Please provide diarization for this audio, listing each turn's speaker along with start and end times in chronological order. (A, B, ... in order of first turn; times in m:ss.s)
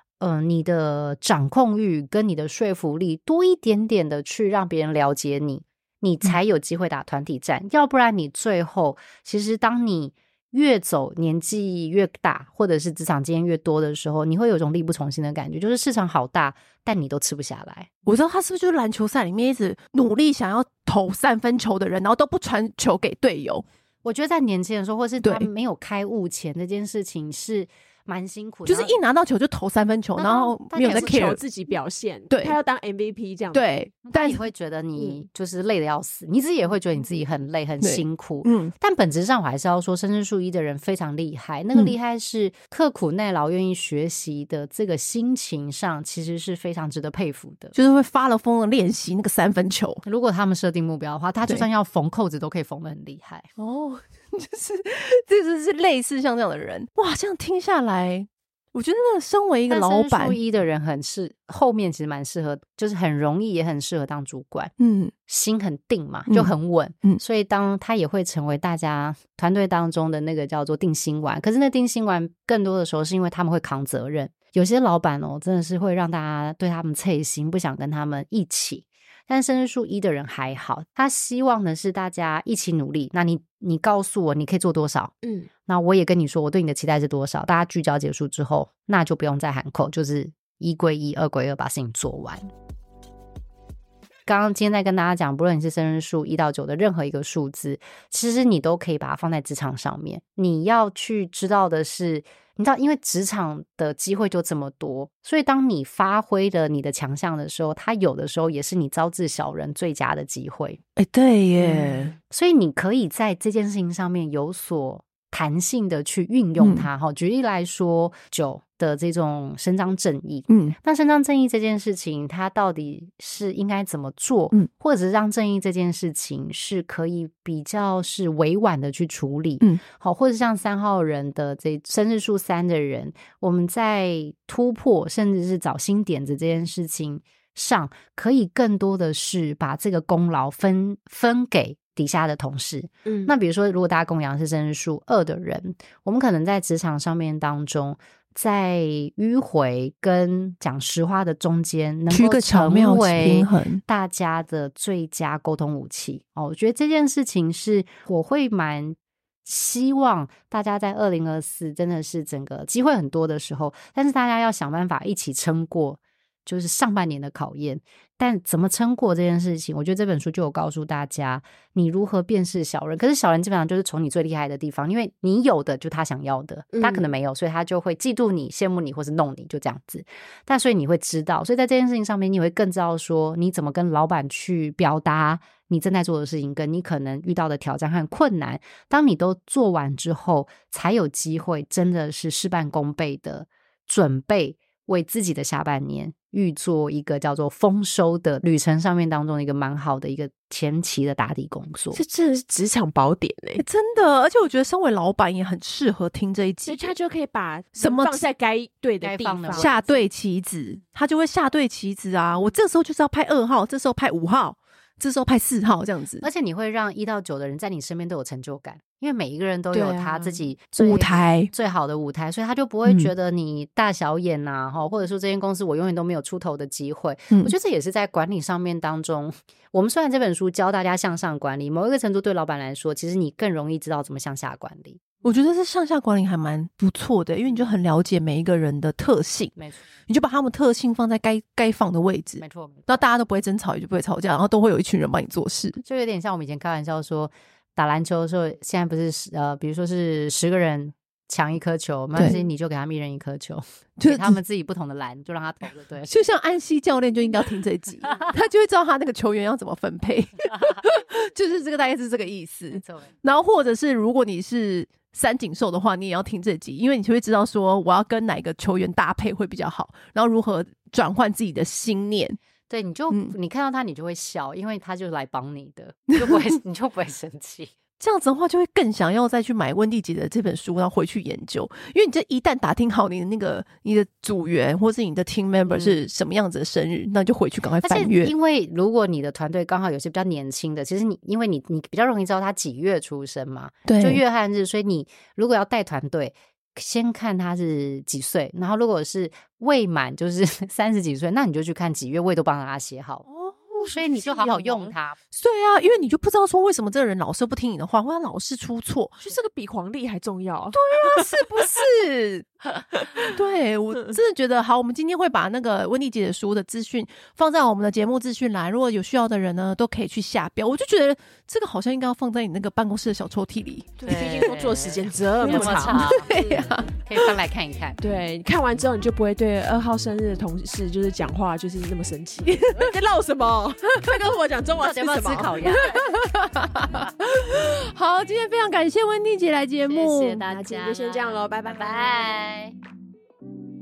0:00.2-0:17.9 A
0:18.1-0:23.6 B
0:24.0-0:29.0 A
0:25.2-0:25.5 B
0:28.7-0:31.4 B
0:30.2-0:31.3 A
0:30.8-0:33.6 C
0:32.3-0:32.6 B
0:33.5-0:34.4 B
0:34.0-0:47.7 A
0:37.8-0:38.7 B
0:47.8-0:50.0 B
0:50.0-0:53.5 A
0:53.6-1:00.4 B
0:59.7-1:04.7 A
1:04.8-1:05.1 B
1:05.3-1:25.1 A
1:25.2-1:25.5 C
1:25.7-1:32.5 A
1:34.3-1:50.8 A
1:51.0-1:52.1 B
1:51.6-1:52.1 C
1:52.3-3:22.0 A
1:56.6-1:56.9 B
2:00.5-2:00.8 B
2:23.1-2:23.3 C
2:32.1-2:33.8 B
2:56.7-2:57.1 C
3:21.9-3:23.6 C
3:23.6-3:26.9 B
3:26.7-3:30.1 C
3:27.8-3:28.2 B
3:29.0-3:29.8 A
3:29.6-3:36.2 B
3:36.2-3:55.0 A
3:39.7-3:41.5 B
3:42.9-3:43.1 B
3:55.2-3:59.6 B
3:59.6-3:59.8 A
4:00.1-4:05.8 B
4:02.4-4:02.9 A
4:05.8-4:16.2 A
4:14.0-4:14.4 B
4:16.1-4:32.4 B
4:22.8-4:23.1 A
4:32.7-4:37.7 A
4:38.0-4:48.3 B
4:45.7-4:46.0 A
4:47.8-5:03.3 A
4:53.9-4:54.2 B
5:03.3-5:09.2 B
5:03.8-5:05.2 A
5:09.2-5:11.3 C
5:10.7-5:24.6 B
5:13.0-5:13.3 C
5:24.0-5:26.7 C
5:24.0-5:26.3 A
5:25.4-5:26.9 B
5:27.1-5:28.0 A
5:28.0-5:35.8 C
5:34.8-5:36.1 A
5:35.7-5:40.4 B
5:39.9-5:42.8 A
5:40.4-5:42.3 C